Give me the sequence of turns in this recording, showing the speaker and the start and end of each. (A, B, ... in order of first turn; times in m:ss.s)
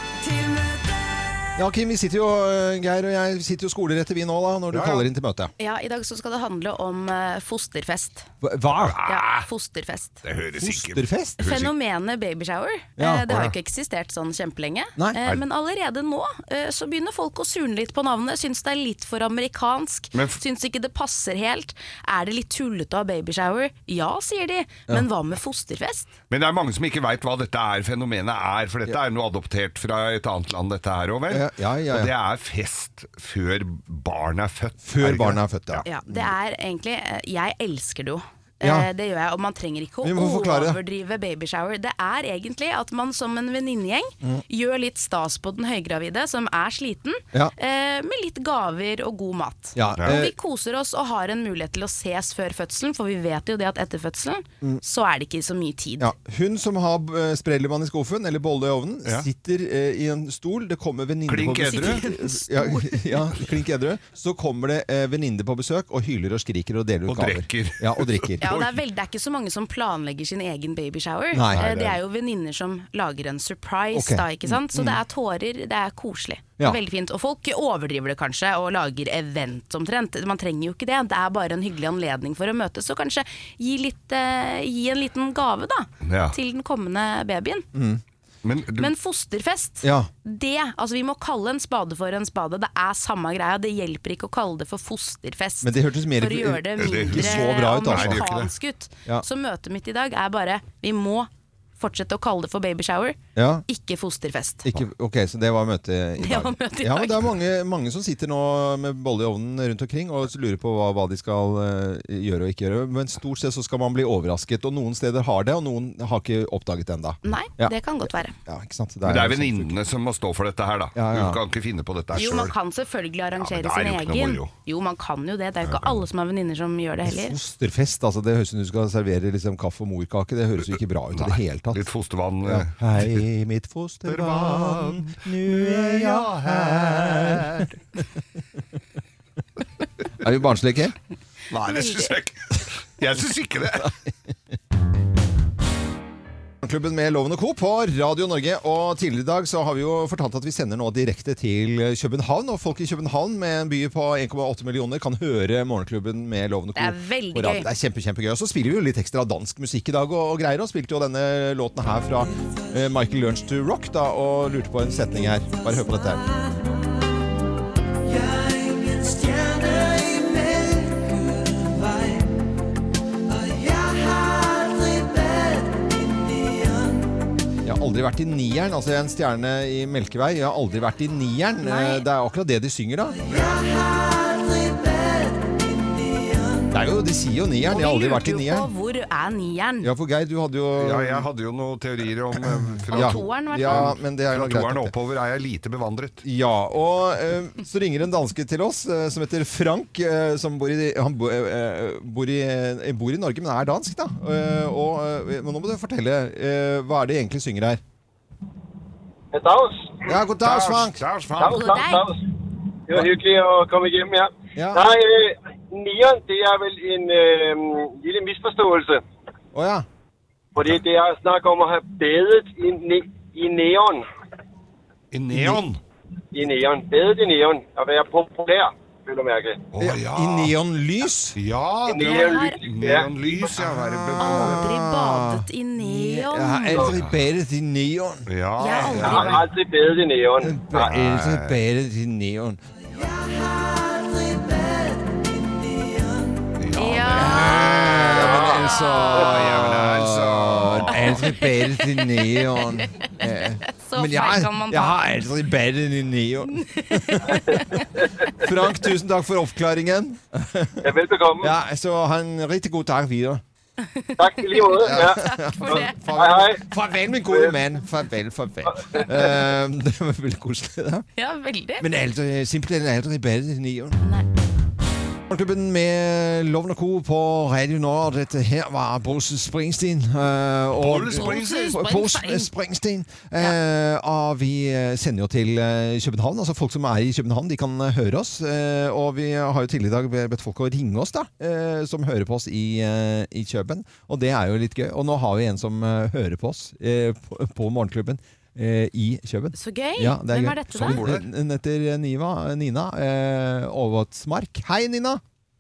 0:00.2-0:00.9 A
0:01.6-0:05.5 B
0:04.7-0:05.1 C
0:05.6-0:08.3 D
0:08.4-0:09.0 B
0:08.7-0:09.5 C
0:09.0-0:10.2 D
0:10.2-0:11.7 C
0:10.6-0:11.4 B
0:11.4-0:26.1 D
0:13.0-0:13.5 B
0:20.1-0:20.4 C
0:26.3-0:35.8 C
0:31.3-0:32.1 B
0:34.8-0:36.3 B
0:35.9-0:56.1 D
0:38.6-0:38.9 B
0:40.0-0:40.8 B
0:49.8-0:50.3 B
0:50.0-0:50.2 C
0:56.0-1:08.5 B
1:01.3-1:02.0 C
1:01.7-1:03.0 D
1:07.1-1:08.8 C
1:08.4-1:27.6 D
1:11.3-1:11.6 B
1:11.5-1:12.0 C
1:13.9-1:15.0 B
1:26.0-1:26.3 C
1:27.7-1:28.0 B
1:28.4-1:28.9 C
1:28.8-1:44.7 D
1:29.8-1:30.1 B
1:35.6-1:38.2 B
1:36.8-1:38.5 C
1:43.4-1:43.6 B
1:44.6-1:57.7 B
1:46.2-1:47.3 D
1:57.2-1:58.3 D
1:58.4-1:59.8 B
1:59.0-2:02.5 C
2:01.0-2:01.4 B
2:02.1-2:07.4 D
2:03.4-2:04.5 C
2:05.6-2:06.0 C
2:07.0-2:11.8 B
2:11.1-2:13.2 C
2:12.4-2:17.6 B
2:14.0-2:17.7 C
2:20.2-2:20.9 B
2:21.5-2:23.9 C
2:21.7-2:22.1 D
2:26.6-2:46.2 B
2:36.8-2:37.7 D
2:48.0-2:52.2 A
2:53.3-2:57.0 A
2:57.6-3:03.2 B
3:01.6-3:02.0 D
3:03.2-3:06.7 A
3:06.7-3:08.7 B
3:07.7-3:09.9 D
3:09.8-3:11.2 B
3:10.8-3:16.2 C
3:12.3-3:14.9 B
3:12.9-3:13.9 D
3:16.2-3:27.8 B
3:29.3-3:30.0 E
3:30.0-3:31.0 B
3:30.4-3:31.8 C
3:31.4-3:32.2 E
3:31.4-3:32.0 D
3:32.9-3:39.0 E
3:34.6-3:34.9 B
3:39.5-3:39.8 B
3:40.5-3:44.0 E
3:45.1-3:45.8 C
3:45.3-3:45.6 B
3:46.3-3:49.6 E
3:49.7-3:50.5 C
3:49.8-3:51.4 B
3:51.4-3:54.6 C
3:51.9-3:53.1 E
3:52.0-3:52.6 D
3:53.6-3:59.3 B
3:54.2-3:56.9 D
3:56.8-3:57.1 C
3:58.3-3:59.4 C
3:58.6-3:59.4 D
3:59.0-4:00.5 E
4:00.4-4:02.6 B
4:00.7-4:01.6 C
4:02.9-4:06.4 A
4:06.6-4:11.2 C
4:06.8-4:07.7 D
4:07.1-4:17.4 B
4:08.2-4:08.6 E
4:08.7-4:09.2 D
4:11.0-4:15.0 D
4:16.5-4:17.9 D
4:17.3-4:18.3 E
4:18.4-4:20.8 B
4:20.8-4:21.5 E
4:21.4-4:23.4 B
4:23.8-4:26.0 D
4:24.2-4:26.6 E
4:24.8-4:31.0 B
4:27.3-4:27.6 E
4:28.7-4:29.3 E
4:31.2-4:31.9 D
4:31.8-4:34.0 B
4:35.3-5:05.2 B
4:40.8-4:41.8 C
4:41.1-4:42.5 D
4:59.5-5:01.1 D
5:00.7-5:01.2 C